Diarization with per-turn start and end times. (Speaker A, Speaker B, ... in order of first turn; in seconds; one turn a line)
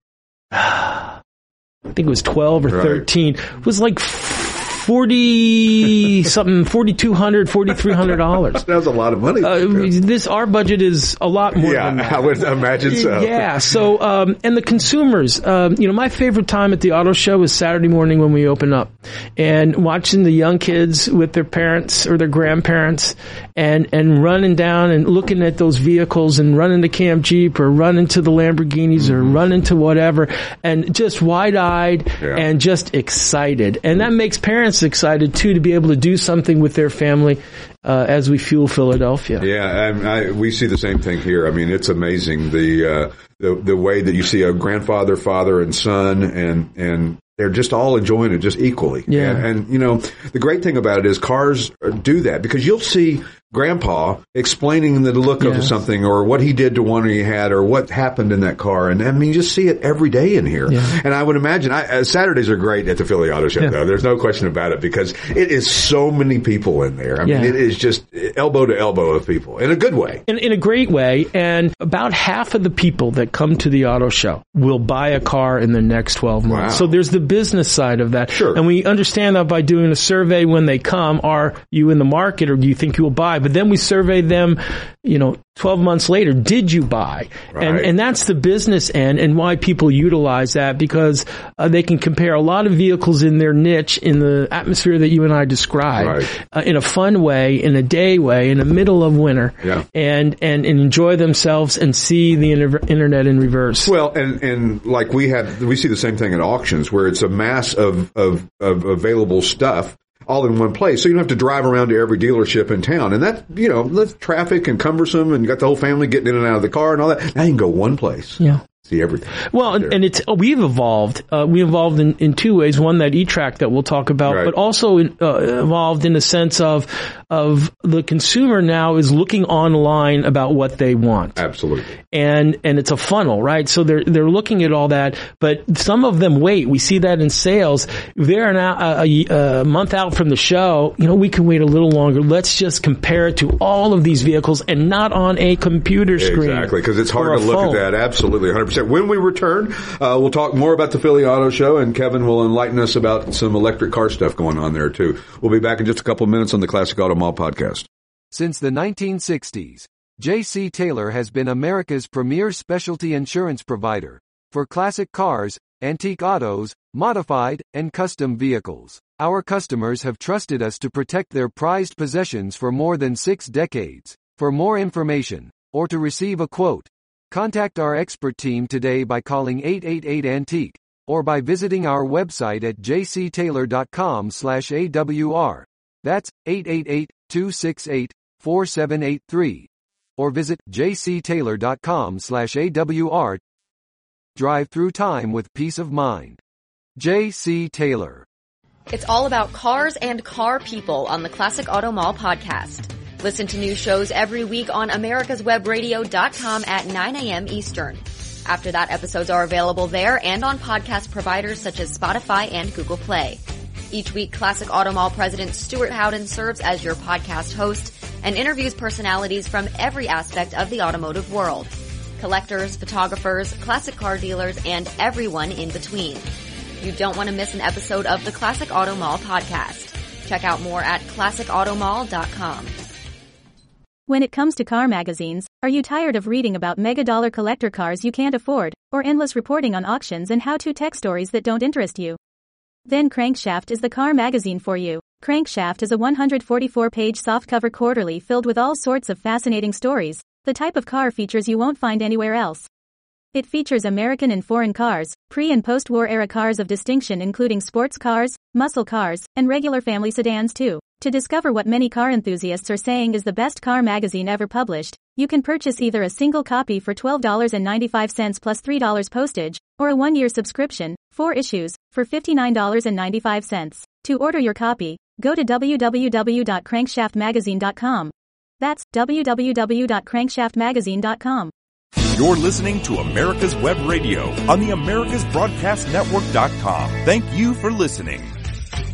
Speaker A: 0.5-1.2
Speaker A: 1.9-8.6
Speaker B: 2.7-3.0
Speaker B: 8.1-9.9
Speaker A: 9.4-39.5
Speaker B: 11.6-13.5
Speaker B: 29.0-29.4
Speaker B: 39.4-70.2
Speaker A: 49.1-49.4
Speaker A: 55.4-55.7
Speaker A: 60.7-61.0
Speaker A: 67.3-67.5
Speaker A: 70.3-103.9
Speaker B: 76.5-76.9
Speaker B: 78.3-78.6
Speaker B: 87.5-87.9
Speaker B: 96.0-96.3
Speaker B: 103.8-120.0
Speaker A: 119.5-131.4
Speaker B: 124.3-124.5
Speaker B: 131.4-132.0
Speaker A: 132.1-147.8
Speaker B: 146.2-157.9
Speaker C: 158.3-193.4
Speaker C: 194.4-196.4
Speaker C: 197.0-198.3
Speaker D: 198.9-232.7
Speaker E: 234.1-242.2
Speaker E: 242.9-252.7
Speaker E: 253.3-281.5
Speaker F: 282.1-288.3